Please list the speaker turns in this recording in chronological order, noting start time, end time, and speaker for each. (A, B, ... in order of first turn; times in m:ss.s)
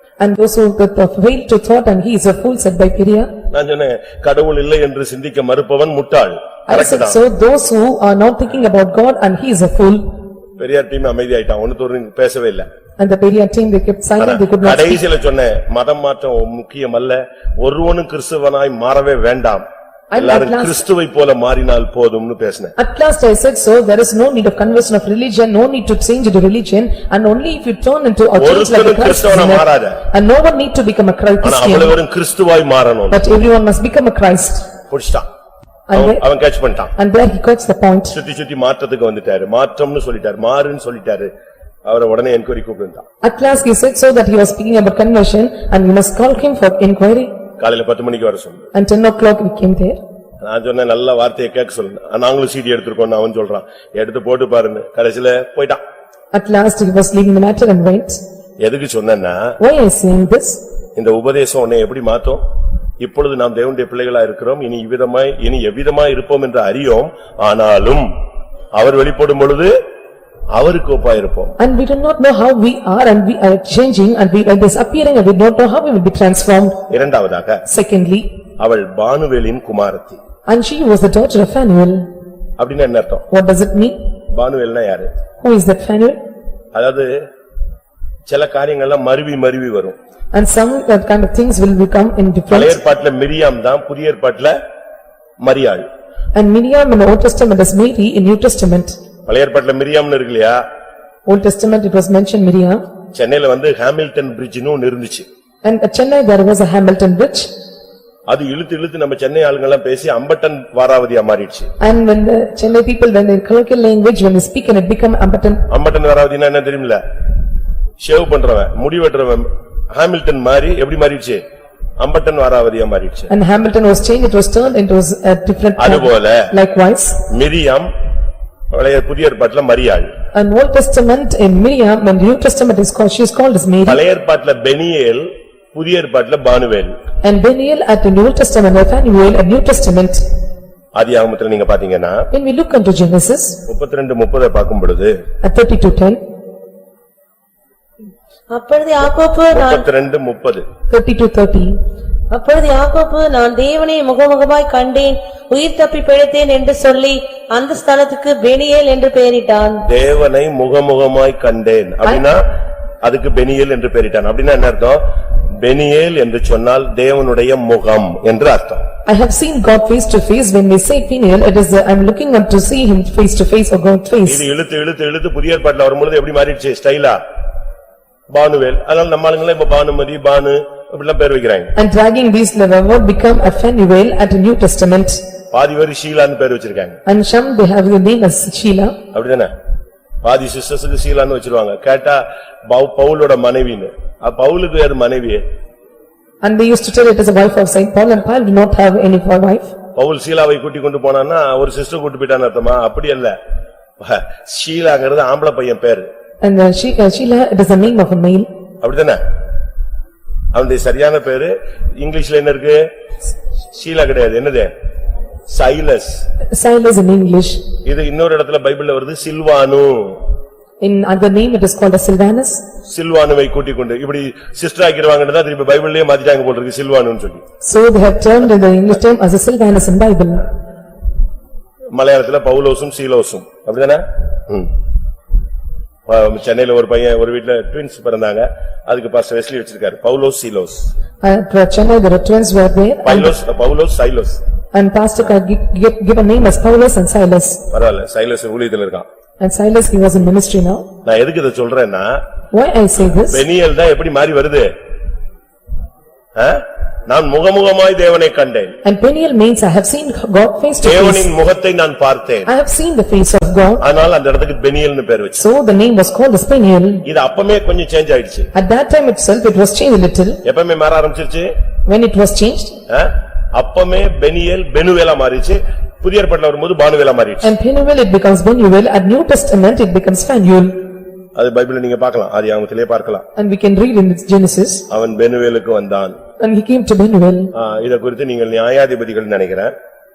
0:00.2-0:03.3 A
0:03.5-0:07.2 B
0:06.7-0:10.0 A
0:10.6-0:12.7 B
0:13.0-0:15.0 A
0:14.2-0:22.7 B
0:20.1-0:20.9 A
0:22.8-0:32.0 A
0:28.4-0:30.0 B
0:31.4-0:33.2 B
0:33.1-0:34.7 A
0:34.9-0:35.2 B
0:35.9-0:36.2 A
0:35.9-0:36.9 B
0:37.0-0:38.2 A
0:38.1-0:41.3 B
0:41.8-0:43.0 B
0:43.2-0:47.3 A
0:47.6-0:48.7 B
0:48.7-0:50.0 A
0:50.4-0:55.8 B
0:56.3-0:58.2 A
0:58.6-0:59.5 B
0:59.6-1:00.6 A
1:01.0-1:02.4 B
1:03.0-1:08.1 B
1:08.8-1:09.7 B
1:10.6-1:11.6 B
1:11.6-1:16.8 A
1:16.9-1:17.6 B
1:17.7-1:18.3 A
1:18.6-1:20.2 B
1:20.5-1:22.1 A
1:22.6-1:23.2 B
1:23.3-1:24.0 A
1:24.3-1:25.1 B
1:25.4-1:26.2 A
1:26.7-1:27.1 B
1:28.3-1:30.0 B
1:30.3-1:32.8 A
1:32.5-1:34.5 B
1:35.4-1:35.9 B
1:36.3-1:39.0 A
1:39.3-1:40.6 B
1:41.3-1:42.8 A
1:43.2-1:45.3 B
1:45.6-1:47.5 A
1:48.3-1:51.7 B
1:51.8-1:55.7 A
1:55.7-1:57.0 B
1:58.0-2:01.4 B
2:02.0-2:03.3 B
2:03.3-2:07.2 A
2:05.8-2:06.5 B
2:07.3-2:07.9 B
2:08.7-2:10.1 B
2:10.3-2:14.0 A
2:13.9-2:17.0 B
2:17.2-2:20.2 A
2:20.9-2:22.2 B
2:22.3-2:23.6 A
2:23.7-2:25.2 B
2:25.4-2:26.2 A
2:28.5-2:29.8 C
2:29.5-2:30.6 B
2:30.9-2:31.8 A
2:32.3-2:39.8 C
2:39.9-2:42.4 B
2:43.0-2:45.0 B
2:45.6-2:48.9 B
2:49.1-2:54.4 A
2:54.2-2:57.2 B
2:58.3-3:01.7 B
3:01.8-3:05.2 A
3:05.5-3:07.0 B
3:07.1-3:09.0 A
3:09.1-3:09.5 B
3:10.2-3:15.4 B
3:16.4-3:19.7 A
3:20.0-3:23.3 B
3:24.0-3:26.1 B
3:26.4-3:28.5 A
3:28.8-3:29.2 B
3:30.5-3:32.8 B
3:33.7-3:34.7 B
3:35.5-3:36.2 B
3:36.5-3:37.6 A
3:37.8-3:40.2 B
3:40.8-3:42.6 A
3:42.9-3:47.4 B
3:47.6-3:50.5 A
3:51.9-3:54.7 B
3:56.1-4:00.9 B
4:01.2-4:03.3 A
4:03.0-4:04.4 B
4:04.7-4:07.6 A
4:07.7-4:09.1 B
4:09.4-4:10.9 A
4:11.0-4:12.2 B
4:12.5-4:13.4 A
4:13.3-4:14.7 B
4:16.4-4:18.8 B
4:18.8-4:21.3 A
4:20.8-4:22.5 B
4:22.5-4:23.8 A
4:23.8-4:25.4 B
4:25.4-4:27.0 A
4:27.1-4:28.5 B
4:28.5-4:30.4 A
4:30.4-4:31.5 B
4:31.9-4:32.8 A
4:32.9-4:37.6 B
4:37.4-4:40.8 A
4:41.4-4:43.2 B
4:43.4-4:44.8 A
4:44.9-4:46.2 B
4:46.4-4:47.5 A
4:47.6-4:49.7 B